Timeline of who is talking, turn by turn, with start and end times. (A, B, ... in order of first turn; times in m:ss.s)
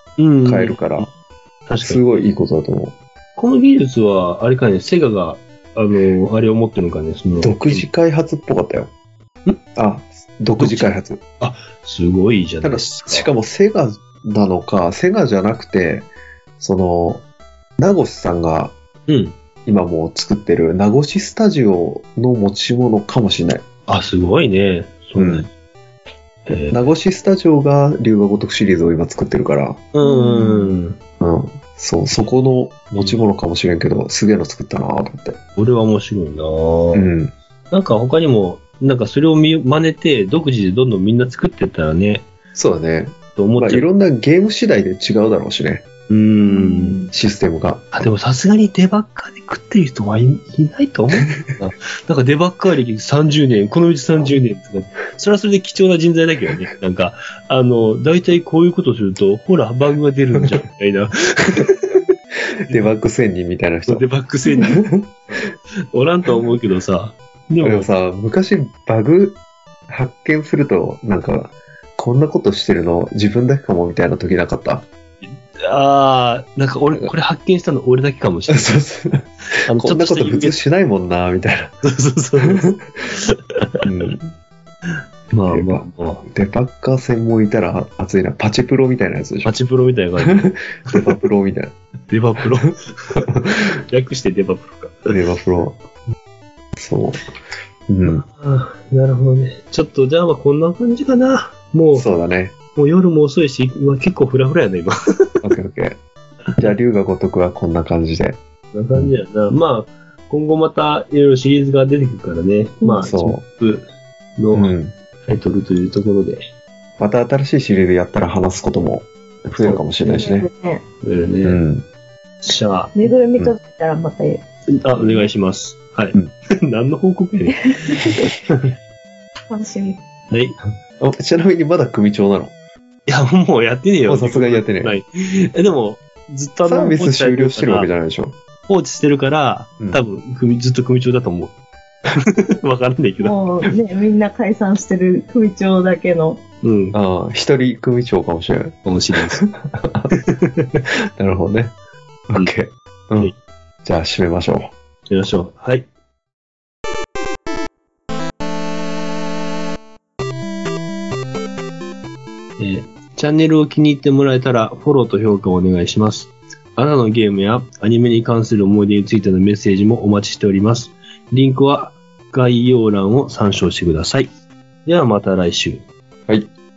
0:00.2-0:01.1 A
0:00.4-0:01.1 B
0:01.7-0:02.0 A
0:01.8-0:03.0 B
0:03.4-0:07.9 A
0:07.4-0:08.9 B
0:09.7-0:11.2 B
0:10.6-0:13.3 A
0:12.6-0:16.1 B
0:16.6-0:17.2 B
0:17.8-0:18.7 B
0:19.1-0:19.4 A
0:19.6-0:23.6 B
0:23.9-0:25.5 A
0:25.2-0:25.5 B
0:26.5-0:26.8 A
0:26.7-0:29.8 B
0:29.9-0:31.0 A
0:30.0-0:30.8 C
0:31.2-0:35.4 B
0:35.6-0:37.1 A
0:36.9-0:37.3 B
0:37.7-0:42.3 A
0:42.5-0:45.8 B
0:43.3-0:43.9 A
0:46.1-0:47.0 A
0:46.4-0:47.1 C
0:47.1-0:47.8 B
0:47.9-1:02.0 A
1:02.7-1:04.1 B
1:03.9-1:07.9 A
1:04.6-1:05.1 B
1:07.6-1:14.8 B
1:15.2-1:18.8 A
1:18.5-1:21.8 B
1:19.6-1:20.6 A
1:21.8-1:23.8 A
1:22.4-1:22.8 B
1:23.8-1:24.3 B
1:24.9-1:26.2 A
1:25.5-1:29.5 B
1:29.4-1:31.0 A
1:30.2-1:31.7 B
1:32.1-1:33.3 A
1:33.9-1:35.0 A
1:35.1-1:35.8 B
1:36.8-1:37.2 B
1:37.9-1:38.2 B
1:38.0-1:42.1 A
1:41.9-1:42.5 B
1:42.7-1:44.9 A
1:45.4-1:46.0 B
1:46.6-1:48.4 B
1:48.7-1:53.9 A
1:52.8-1:53.1 C
1:53.0-1:53.4 B
1:54.4-1:56.5 A
1:54.5-1:54.9 B
1:57.0-2:00.5 B
2:00.0-2:00.8 C
2:01.0-2:01.6 A
2:01.4-2:01.8 B
2:02.4-2:03.0 A
2:02.9-2:04.4 C
2:04.8-2:08.6 A
2:07.5-2:08.3 C
2:09.5-2:10.0 C
2:10.3-2:10.6 A
2:11.0-2:12.5 B
2:13.1-2:17.9 A
2:14.1-2:15.0 B
2:16.6-2:18.3 B
2:18.7-2:21.5 A
2:22.2-2:23.4 A
2:23.2-2:26.4 C
2:26.6-2:27.0 A
2:26.9-2:30.1 B
2:28.8-2:29.4 A
2:30.2-2:30.8 A
2:31.2-2:31.7 B
2:32.3-2:34.7 B
2:35.1-2:35.9 A
2:42.6-2:54.3 A
2:54.8-2:55.8 A